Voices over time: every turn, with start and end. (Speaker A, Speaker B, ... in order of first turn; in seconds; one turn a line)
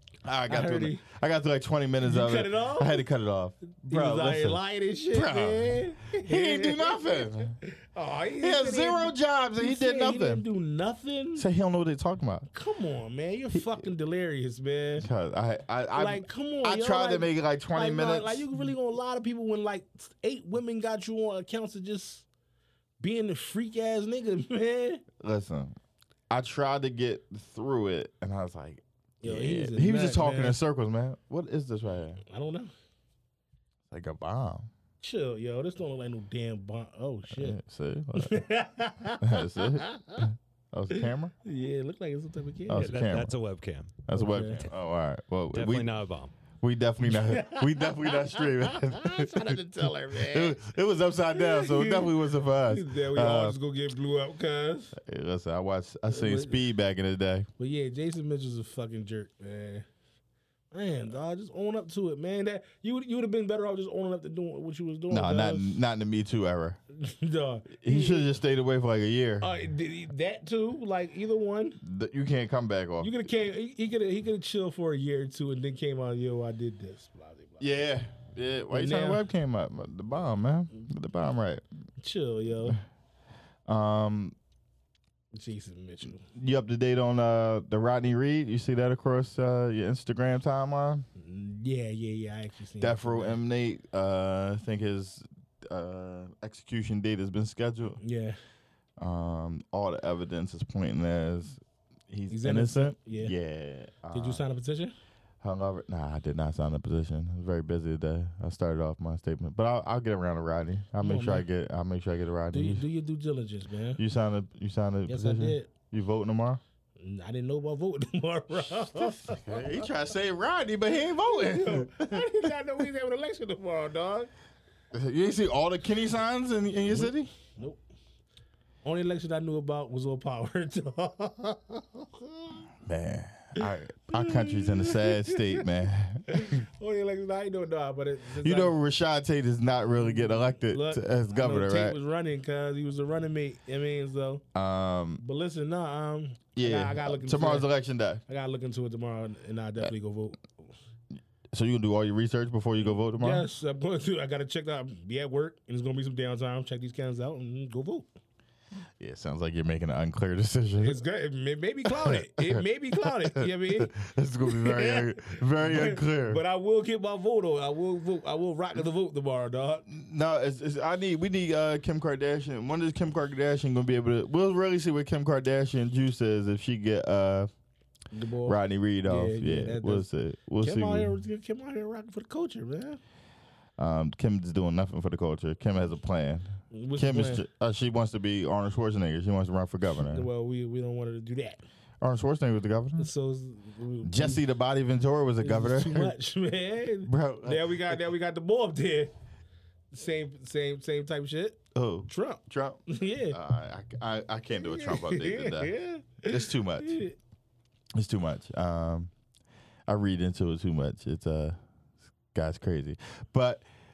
Speaker A: 0.2-4.6
Speaker B: 0.5-1.0
Speaker B: 2.0-3.0
Speaker B: 3.7-11.4
Speaker A: 5.1-7.5
Speaker A: 8.4-10.4
Speaker A: 11.3-12.5
Speaker B: 12.5-15.1
Speaker A: 15.0-18.4
Speaker B: 15.9-22.2
Speaker B: 23.0-25.0
Speaker A: 25.2-25.7
Speaker A: 26.3-32.2
Speaker B: 29.2-30.6
Speaker B: 32.2-32.7
Speaker A: 33.9-34.7
Speaker B: 35.0-37.6
Speaker A: 37.3-38.4
Speaker B: 38.2-40.3
Speaker A: 39.2-41.3
Speaker B: 41.0-43.0
Speaker A: 42.7-43.4
Speaker C: 42.7-44.0
Speaker A: 44.0-45.9
Speaker B: 44.1-44.7
Speaker C: 45.5-46.3
Speaker A: 46.6-49.6
Speaker B: 47.0-50.6
Speaker A: 50.1-53.6
Speaker B: 51.3-55.0
Speaker A: 55.0-57.5
Speaker B: 56.1-56.6
Speaker B: 57.6-59.9
Speaker B: 60.7-65.8
Speaker A: 65.1-66.8
Speaker B: 66.9-68.3
Speaker A: 67.8-69.5
Speaker B: 69.4-71.8
Speaker A: 71.8-73.2
Speaker B: 73.0-77.7
Speaker A: 77.6-81.6
Speaker B: 78.7-79.2
Speaker B: 82.0-82.8
Speaker A: 83.7-84.3
Speaker B: 85.3-86.2
Speaker A: 86.3-91.0
Speaker B: 91.2-93.3
Speaker A: 92.8-98.0
Speaker B: 98.0-98.4
Speaker A: 99.0-104.4
Speaker B: 102.3-103.3
Speaker B: 104.1-104.9
Speaker A: 105.4-112.8
Speaker B: 111.0-111.5
Speaker B: 112.5-114.0
Speaker A: 114.0-116.6
Speaker B: 115.1-115.7
Speaker B: 117.0-119.8
Speaker A: 118.9-122.4
Speaker B: 121.2-124.3
Speaker A: 124.9-127.3
Speaker B: 126.9-127.8
Speaker B: 128.8-132.6
Speaker A: 132.8-136.7
Speaker B: 133.6-135.7
Speaker B: 136.3-138.7
Speaker A: 138.4-142.0
Speaker B: 140.1-144.4
Speaker A: 144.5-145.2
Speaker B: 145.2-147.7
Speaker A: 146.6-148.2
Speaker B: 148.3-150.4
Speaker A: 151.5-153.5
Speaker B: 153.1-158.1
Speaker A: 159.0-161.0
Speaker B: 160.8-169.8
Speaker A: 161.8-166.4
Speaker A: 169.9-177.5
Speaker B: 178.1-180.1
Speaker A: 178.4-181.1
Speaker B: 180.6-183.0
Speaker A: 183.8-190.3
Speaker B: 186.7-187.4
Speaker B: 190.1-191.6
Speaker A: 192.0-193.1
Speaker B: 193.0-194.4
Speaker A: 194.0-196.1
Speaker B: 195.4-199.1
Speaker A: 197.1-198.0
Speaker B: 199.9-203.4
Speaker A: 201.7-205.7
Speaker B: 204.6-207.2
Speaker A: 206.3-207.0
Speaker A: 207.9-209.1
Speaker A: 209.9-211.6
Speaker A: 212.3-213.6